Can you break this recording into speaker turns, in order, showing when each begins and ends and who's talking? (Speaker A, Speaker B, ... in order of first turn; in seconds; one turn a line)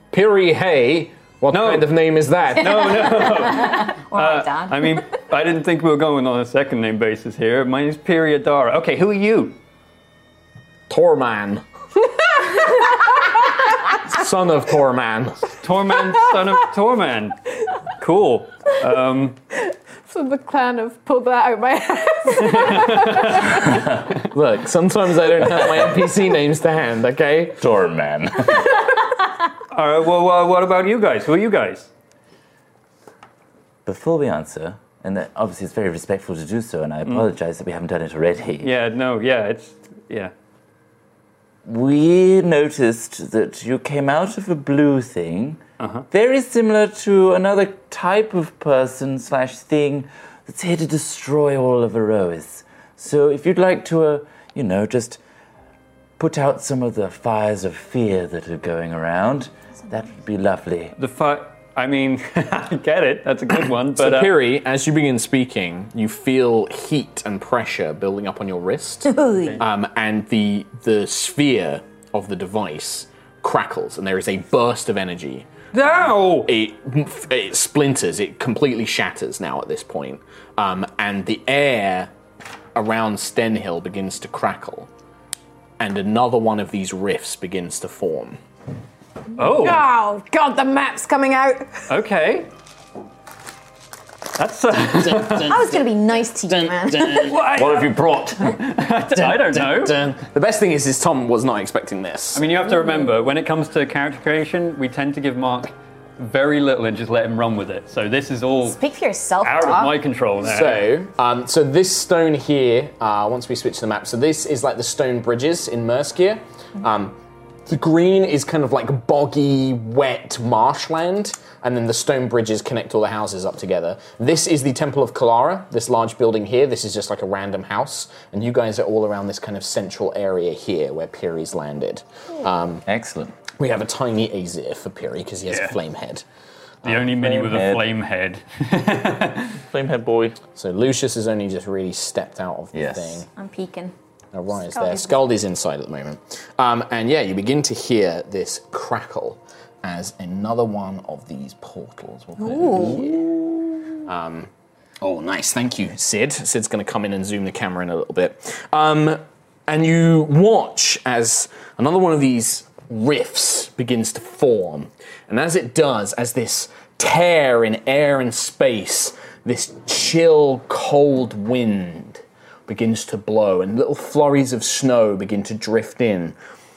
Speaker A: 0.1-3.2
Speaker B: 1.5-1.9
Speaker B: 2.5-9.6
Speaker C: 2.6-5.0
Speaker A: 10.9-11.6
Speaker A: 14.0-15.5
Speaker B: 15.5-17.4
Speaker B: 18.0-19.4
Speaker D: 19.7-23.8
Speaker B: 22.4-23.5
Speaker A: 24.1-27.6
Speaker E: 27.6-28.8
Speaker B: 29.7-31.9
Speaker E: 33.9-38.7
Speaker B: 38.6-40.3
Speaker E: 41.6-55.2
Speaker B: 45.8-46.0
Speaker E: 56.2-60.9
Speaker B: 61.0-64.3
Speaker A: 64.0-82.1
Speaker B: 75.7-76.5
Speaker A: 82.7-84.9
Speaker A: 85.8-88.4
Speaker B: 89.4-89.8
Speaker D: 89.5-91.8
Speaker B: 91.9-92.5
Speaker B: 94.3-95.6
Speaker A: 94.9-95.9
Speaker C: 95.4-97.2
Speaker A: 96.5-97.6
Speaker B: 97.0-100.0
Speaker E: 97.4-98.4
Speaker A: 99.1-102.4
Speaker B: 102.3-108.8
Speaker C: 108.6-110.0
Speaker B: 109.4-110.9
Speaker A: 110.4-117.2
Speaker A: 117.7-132.8
Speaker E: 132.8-133.3
Speaker A: 133.5-136.2
Speaker B: 135.5-135.7
Speaker B: 136.8-139.5
Speaker E: 136.9-137.9
Speaker E: 139.6-140.4
Speaker A: 140.6-143.3
Speaker E: 142.7-143.2
Speaker C: 143.3-143.9
Speaker A: 144.3-153.4
Speaker A: 154.1-154.5
Speaker A: 155.0-176.3